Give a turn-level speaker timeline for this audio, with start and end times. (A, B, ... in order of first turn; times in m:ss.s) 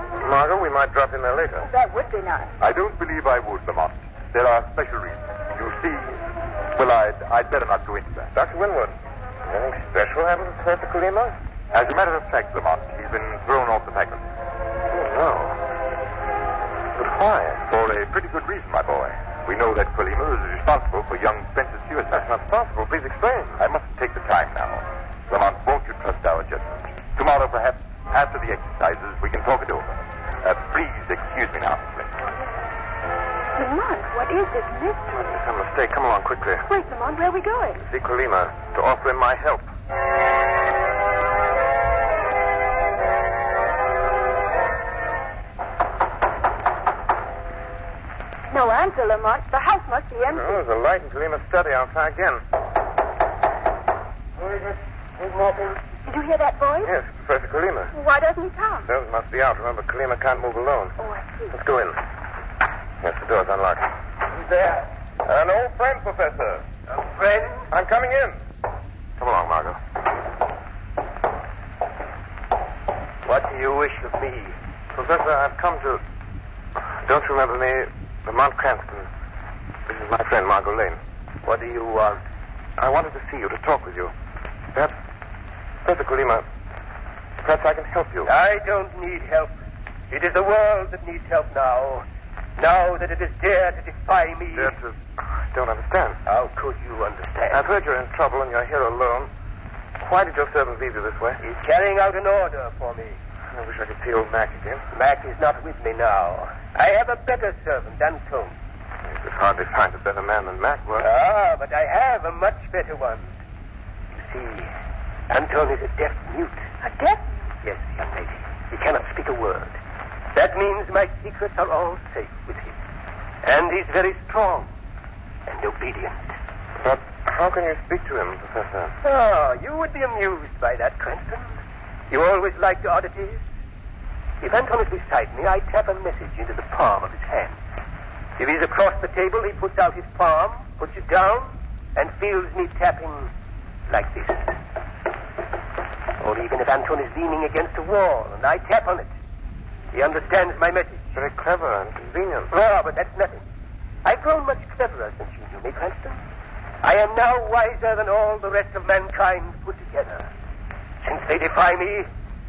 0:00.2-0:01.7 A
0:01.6-0:02.5 B
0:02.6-0:06.2 C
0:06.7-0:08.3 C
0:08.3-0:11.4 A
0:11.7-0:14.3 C
0:14.9-0:15.6 A
0:17.0-0:17.6 A
0:17.7-0:22.2 C
0:22.1-0:23.6 A
0:23.6-0:32.1 C
0:33.6-0:35.1 B
0:35.1-0:36.6 A
0:36.6-0:37.8 B
0:37.8-0:39.7 A
0:48.5-0:50.6 B
0:50.3-0:52.4 A
0:54.4-0:55.8 D
0:56.0-0:56.9 B
0:56.8-0:57.9 A
0:57.9-0:58.9 B
0:58.8-1:00.9 A
1:01.0-1:01.6 B
1:01.5-1:02.0 A
1:03.0-1:03.9 A
1:04.4-1:04.8 D
1:05.2-1:06.6 A
1:06.9-1:07.7 D
1:07.7-1:08.4 A
1:09.2-1:09.8 A
1:13.2-1:14.5 D
1:14.9-1:16.0 A
1:17.0-1:19.1 A
1:19.8-1:21.0 A
1:21.4-1:22.2 D
1:22.8-1:24.1 A
1:25.8-1:26.5 A
1:27.4-1:28.3 A
1:28.2-1:29.5 D
1:30.1-1:32.0 D
1:32.6-1:34.7 D
1:34.5-1:36.2 A
1:36.3-1:37.6 D
1:37.5-1:39.3 A
1:40.0-1:41.4 A
1:41.4-1:43.2 D
1:43.5-1:44.8 A
1:44.9-1:48.5 D
1:49.0-1:51.1 A
1:51.0-1:53.3 D
1:54.1-1:54.7 D
1:55.3-1:56.6 D
1:56.8-1:57.4 B
1:57.6-1:59.8 D
2:00.3-2:02.8 D
2:03.4-2:04.7 D
2:05.5-2:06.3 D
2:06.8-2:08.9 A
2:09.0-2:11.6 D
2:12.1-2:13.4 D
2:14.4-2:17.6 D
2:18.4-2:23.3 D
2:23.9-2:24.6 D
2:26.2-2:29.1 D
2:29.9-2:31.0 D
2:31.1-2:32.5 A
2:32.5-2:33.4 D
2:34.0-2:36.2 D
2:36.8-2:40.3 D
2:41.0-2:42.1 D